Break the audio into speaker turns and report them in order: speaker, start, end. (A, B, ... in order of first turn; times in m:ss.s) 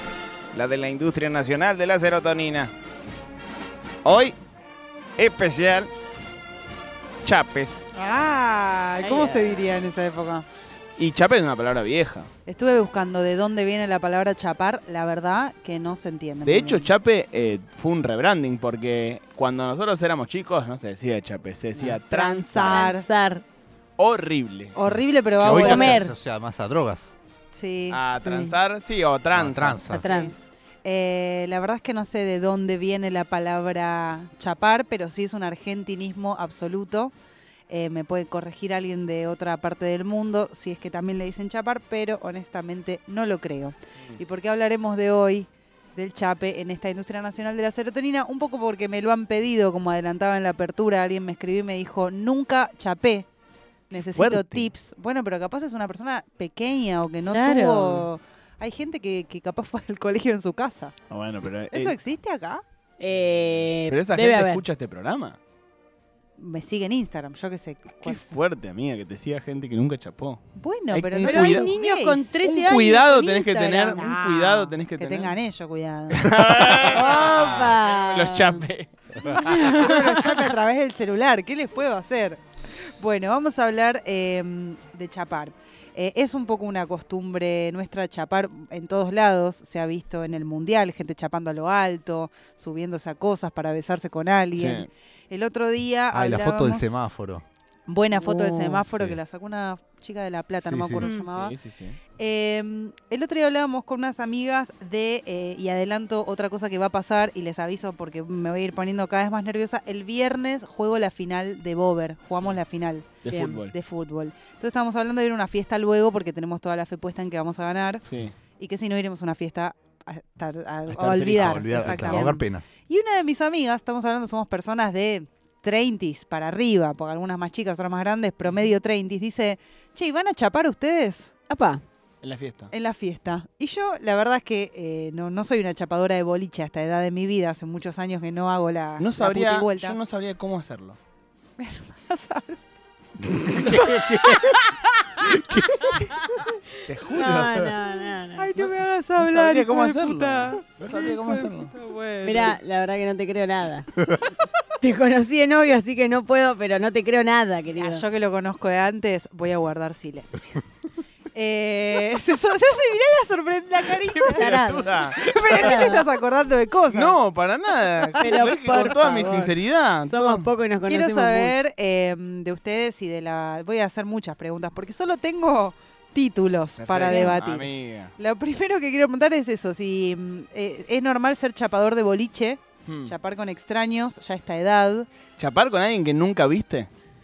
0:00.5-0:02.7 A
0:04.0-0:04.4 A
0:05.2-0:05.9 A
0:07.2-0:07.8 A
0:07.9-0:10.5 B
0:09.0-0:09.6 C
0:11.0-0:12.3 A
0:12.5-0:16.9 B
0:16.4-0:22.8 A
0:21.8-0:23.4 C
0:22.1-0:23.1 B
0:24.0-0:24.8 A
0:24.8-0:26.0 B
0:24.9-0:27.1 D
0:25.4-0:25.9 A
0:25.5-0:26.1 C
0:27.5-0:28.0 B
0:27.9-0:30.0 A
0:28.2-0:28.6 C
0:29.3-0:30.1 D
0:29.9-0:30.4 C
0:30.0-0:37.1 B
0:37.7-0:53.3 B
0:53.9-1:00.9 B
0:54.1-0:54.7 A
0:57.3-0:58.1 C
1:01.1-1:02.0 A
1:01.7-1:02.6 B
1:03.0-1:04.6 C
1:03.9-1:05.4 A
1:06.4-1:08.4 B
1:08.0-1:11.7 A
1:10.6-1:12.4 B
1:11.2-1:14.1 C
1:12.4-1:15.4 A
1:13.9-1:16.3 B
1:16.1-1:20.0 A
1:16.8-1:18.6 C
1:19.2-1:20.4 C
1:19.2-1:22.4 B
1:23.0-1:37.0 B
1:34.6-1:34.9 A
1:36.1-1:37.4 D
1:37.9-1:41.6 B
1:38.2-1:38.8 C
1:38.9-1:39.2 D
1:40.7-1:41.1 D
1:41.0-1:41.3 C
1:41.2-1:42.0 A
1:42.2-1:58.0 B
1:53.2-1:53.7 A
1:53.3-1:53.6 C
1:58.0-1:58.4 A
1:58.6-2:11.3 B
2:00.9-2:02.0 A
2:01.3-2:02.7 D
2:01.9-2:02.4 C
2:11.5-2:11.8 C
2:12.2-2:12.7 A
2:12.7-2:20.0 B
2:19.0-2:21.0 A
2:21.6-2:22.6 B
2:23.2-2:24.6 D
2:23.6-2:24.6 B
2:25.3-2:26.0 D
2:25.8-2:26.1 C
2:26.8-2:27.7 A
2:27.1-2:28.5 C
2:28.4-2:32.6 B
2:29.2-2:31.7 A
2:32.2-2:33.9 C
2:34.8-2:38.0 C
2:37.8-2:40.6 B
2:41.3-2:47.2 B
2:44.1-2:46.0 A
2:44.3-2:46.1 C
2:46.9-2:50.5 A
2:48.0-2:48.6 B
2:48.2-2:49.5 C
2:50.0-2:51.6 C
2:50.9-3:05.1 B
2:56.8-2:58.1 A
2:57.1-2:57.6 C
3:02.9-3:03.1 A
3:05.4-3:06.9 A